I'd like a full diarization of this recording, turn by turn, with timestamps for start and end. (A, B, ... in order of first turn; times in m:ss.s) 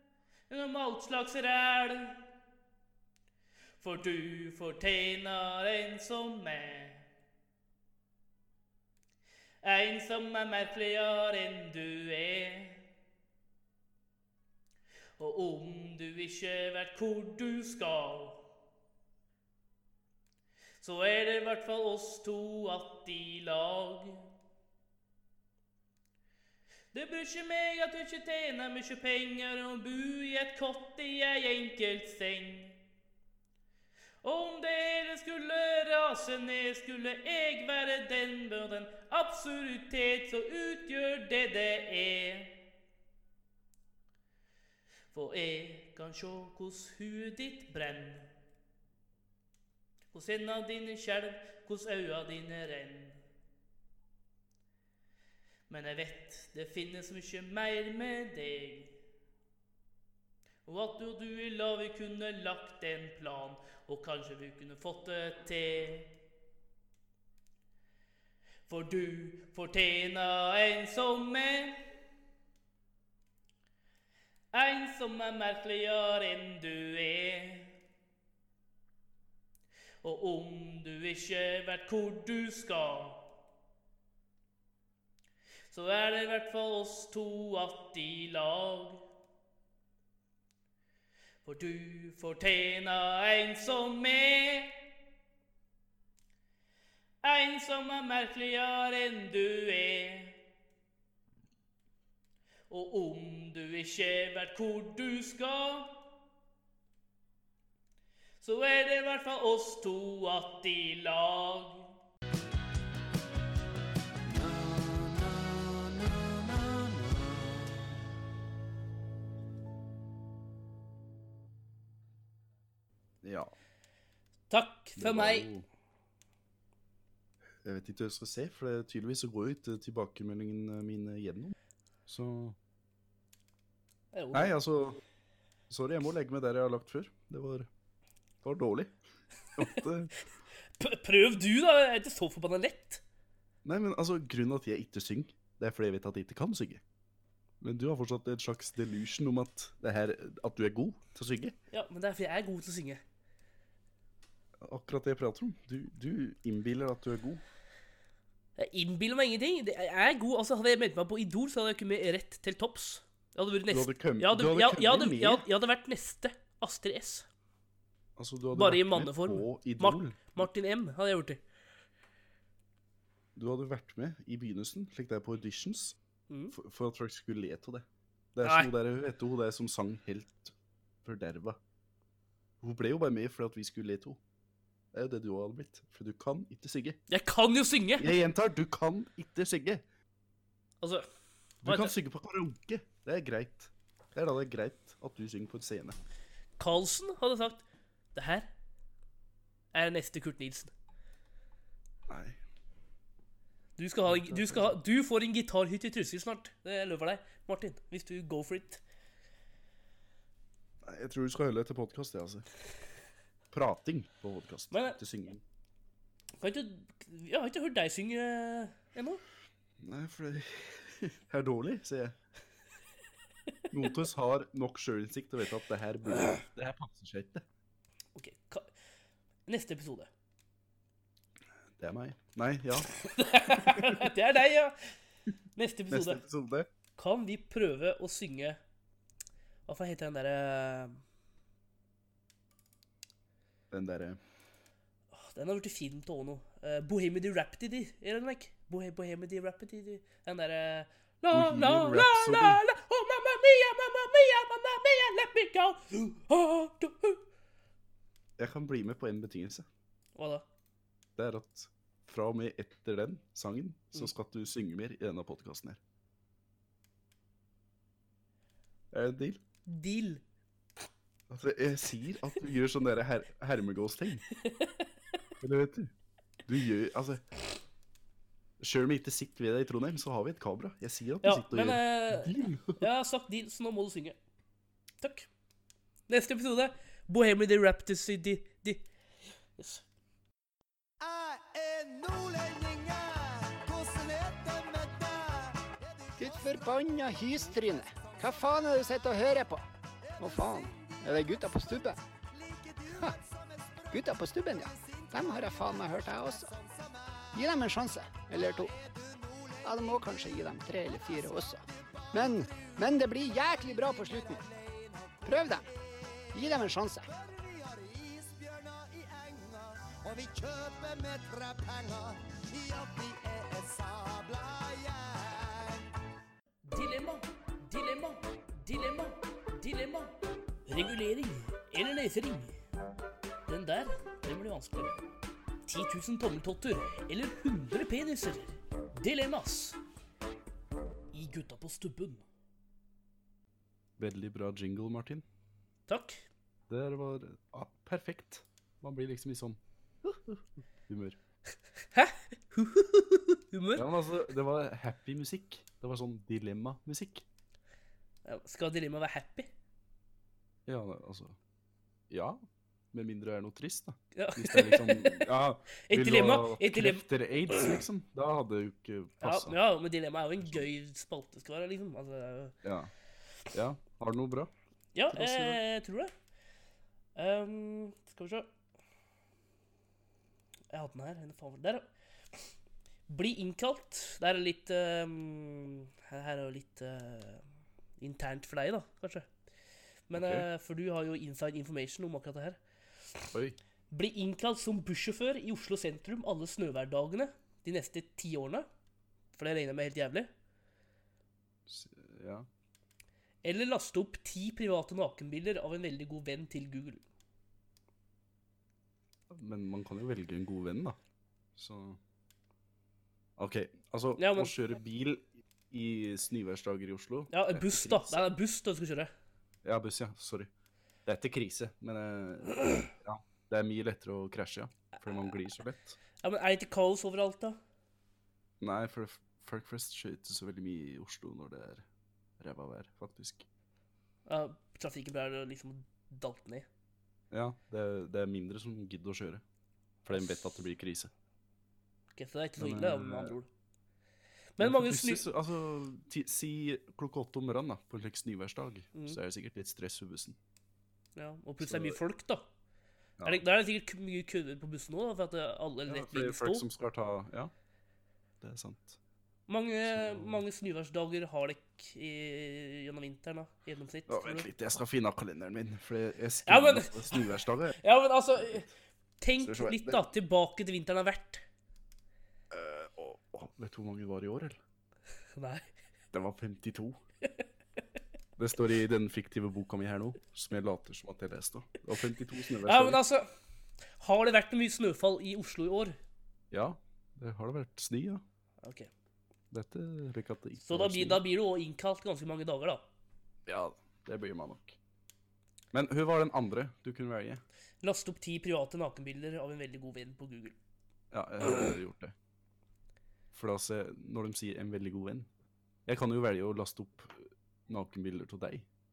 0:00.5-0:02.2 A
0:03.8-0:07.1 A
0:09.6-0:12.8 A
0:15.2-0:18.5 A
0:20.8-0:24.3 A
0:26.9-0:32.8 A
0:34.2-0:42.6 A
0:45.1-0:48.3 A
0:50.1-0:53.2 A
0:55.7-0:59.0 A
1:00.6-1:06.1 A
1:08.7-1:11.8 A
1:14.5-1:17.8 A
1:20.0-1:23.4 A
1:25.7-1:29.0 A
1:31.4-1:34.8 A
1:37.2-1:40.4 A
1:42.7-1:46.0 A
1:48.4-1:51.9 A
1:54.4-1:57.6 B
2:03.2-2:03.5 B
2:04.5-2:05.5 A
2:05.0-2:05.7 B
2:07.6-2:11.5 B
2:12.1-2:12.6 B
2:14.1-2:14.6 A
2:14.3-2:15.0 B
2:15.7-2:17.7 B
2:18.4-2:19.0 B
2:19.6-2:20.1 B
2:20.8-2:23.0 A
2:23.6-2:26.8 B
2:27.6-2:31.6 B
2:31.7-2:33.0 A
2:34.6-2:37.4 B
2:38.6-2:47.3 A
2:43.7-2:45.4 B
2:48.2-2:50.5 B
2:48.5-2:51.4 A
2:53.4-2:56.0 B
2:56.3-2:56.6 A
2:56.5-3:01.6 B
2:58.4-2:58.7 A
3:02.6-3:04.2 B
3:04.9-3:07.0 B
3:07.1-3:08.1 A
3:08.0-3:09.8 B
3:11.6-3:16.0 B
3:11.6-3:12.0 A
3:16.6-3:17.6 A
3:18.1-3:18.5 A
3:19.7-3:20.7 A
3:22.1-3:22.4 B
3:23.8-3:28.8 A
3:24.1-3:24.8 B
3:30.8-3:32.5 B
3:33.5-3:35.4 B
3:34.7-3:35.0 A
3:36.4-3:39.2 A
3:39.8-3:42.2 B
3:43.7-3:47.4 B
3:48.2-3:48.7 A
3:49.5-3:50.1 A
3:51.8-3:52.9 B
3:52.9-3:54.8 A
3:53.5-3:54.0 B
3:55.6-3:56.2 A
3:55.9-3:56.7 B
3:57.0-3:58.6 A
3:59.7-4:01.0 A
4:03.7-4:04.2 B
4:05.1-4:17.2 A
4:11.3-4:12.6 B
4:18.4-4:19.7 B
4:20.2-4:20.5 A
4:21.2-4:25.8 B
4:28.9-4:29.4 B
4:29.7-4:30.2 A
4:31.3-4:34.3 B
4:34.4-4:34.9 A
4:35.4-4:35.9 B
4:36.5-4:37.2 B
4:38.6-4:42.8 B
4:41.2-4:44.2 A
4:45.0-4:45.3 A
4:46.1-4:48.8 A
4:49.6-4:49.8 A
4:51.0-4:55.8 C
4:56.2-4:59.7 D
5:00.2-5:02.0 D
5:02.9-5:03.2 D
5:03.9-5:06.5 D
5:07.3-5:08.7 D
5:09.6-5:11.6 D
5:12.1-5:14.4 D
5:15.2-5:15.6 D
5:16.3-5:17.1 D
5:17.1-5:25.9 C
5:26.6-5:32.6 A
5:33.5-5:35.0 A
5:35.7-5:39.8 A
5:41.1-5:42.2 A
5:44.0-5:45.2 B
5:45.9-5:46.2 A
5:46.7-5:51.2 B
5:51.9-5:53.9 A
5:53.8-5:57.2 B
5:58.2-5:59.5 A
6:00.7-6:01.4 B
6:02.1-6:02.4 B
6:02.9-6:09.6 B
6:04.2-6:05.3 A
6:05.8-6:07.8 A
6:09.2-6:12.6 A
6:12.6-6:12.9 B
6:13.5-6:14.5 B
6:15.0-6:16.1 A
6:15.1-6:15.6 B
6:17.2-6:18.5 A
6:20.7-6:21.9 A
6:23.1-6:27.4 A
6:28.0-6:29.3 A
6:30.1-6:32.6 A
6:30.1-6:30.5 B
6:33.3-6:33.6 B
6:33.9-6:38.7 A
6:39.4-6:40.3 A
6:41.7-6:42.5 B
6:43.4-6:47.0 A
6:49.3-6:51.0 B
6:51.6-6:52.0 B
6:53.4-6:58.3 B
6:54.2-6:54.6 A
6:57.3-6:59.1 A
6:59.6-7:00.5 B
7:01.1-7:06.0 B
7:06.2-7:07.6 A
7:08.6-7:11.9 B
7:12.4-7:13.5 B
7:14.3-7:16.7 A
7:17.3-7:19.4 B
7:20.0-7:21.1 B
7:20.1-7:20.6 A
7:22.2-7:23.5 A
7:22.6-7:23.4 B
7:24.6-7:25.3 A
7:24.6-7:30.4 B
7:31.2-7:32.5 A
7:31.6-7:32.0 B
7:33.2-7:36.6 A
7:35.9-7:37.5 B
7:38.4-7:39.0 B
7:39.5-7:44.5 A
7:39.9-7:40.4 B
7:44.1-7:47.8 B
7:46.5-7:48.7 A
7:48.4-7:48.7 B
7:49.2-7:51.4 A
7:49.4-7:50.0 B
7:52.5-7:54.6 B
7:55.4-7:55.7 A
7:56.1-7:57.0 B
7:58.4-8:03.0 B
8:02.6-8:03.3 A
8:04.0-8:06.0 A
8:06.5-8:08.2 B
8:08.6-8:08.9 A
8:09.5-8:11.2 B
8:10.6-8:12.8 A
8:13.5-8:14.8 B
8:15.7-8:17.4 B
8:17.8-8:20.6 A
8:21.1-8:22.2 B
8:23.3-8:25.3 B
8:25.9-8:28.7 B